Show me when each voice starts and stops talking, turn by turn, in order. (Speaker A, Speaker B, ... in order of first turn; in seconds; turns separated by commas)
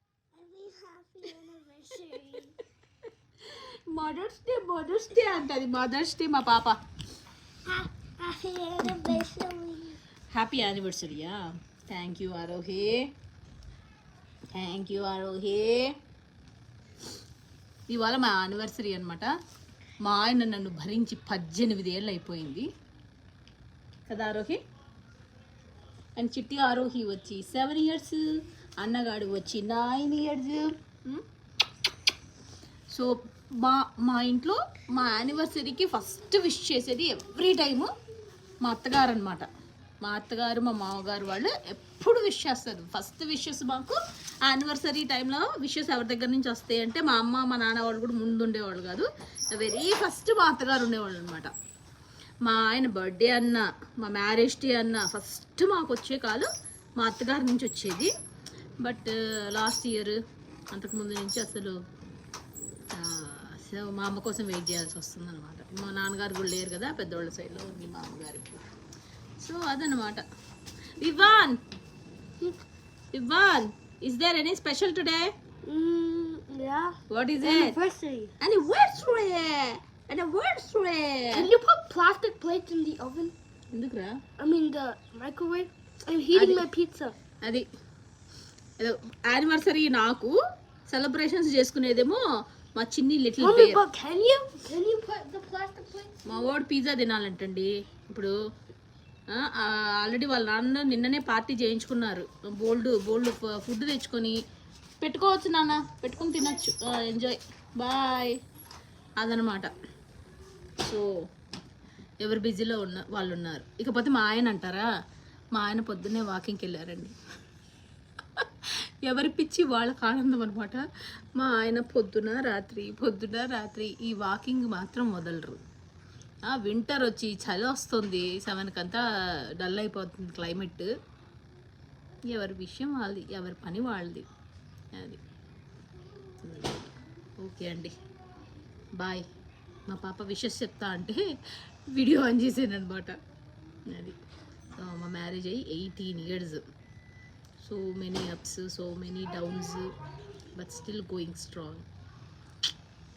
Speaker A: 0.3-2.6, Speaker B: 3.5-6.8, Speaker A: 7.7-10.0, Speaker B: 8.8-9.2, Speaker B: 10.3-13.0, Speaker B: 14.5-15.9, Speaker B: 17.9-19.3, Speaker B: 20.1-22.7, Speaker B: 24.1-24.6, Speaker B: 26.2-31.2, Speaker B: 32.9-37.9, Speaker B: 38.6-39.5, Speaker B: 40.0-51.5, Speaker B: 52.5-58.1, Speaker B: 58.8-60.2, Speaker B: 60.7-61.8, Speaker B: 62.9-68.6, Speaker B: 69.4-70.2, Speaker B: 71.0-71.6, Speaker B: 73.1-75.3, Speaker A: 75.7-78.3, Speaker B: 77.1-77.8, Speaker B: 78.4-81.5, Speaker A: 81.3-83.3, Speaker B: 83.7-84.2, Speaker A: 84.4-87.2, Speaker B: 86.3-86.7, Speaker B: 88.8-90.3, Speaker B: 90.9-92.2, Speaker B: 92.8-93.8, Speaker A: 93.4-96.5, Speaker B: 96.2-98.3, Speaker B: 99.3-104.4, Speaker B: 105.0-108.3, Speaker B: 109.2-109.7, Speaker B: 112.2-114.9, Speaker B: 115.5-117.1, Speaker B: 118.4-120.8, Speaker B: 121.4-125.6, Speaker B: 126.5-129.0, Speaker B: 129.6-130.9, Speaker B: 132.3-134.3, Speaker B: 134.9-135.2, Speaker B: 136.4-137.9, Speaker B: 139.0-139.3, Speaker B: 139.9-141.2, Speaker B: 141.9-143.2, Speaker B: 143.9-144.2, Speaker B: 144.8-146.6, Speaker B: 147.6-149.9, Speaker B: 150.6-151.8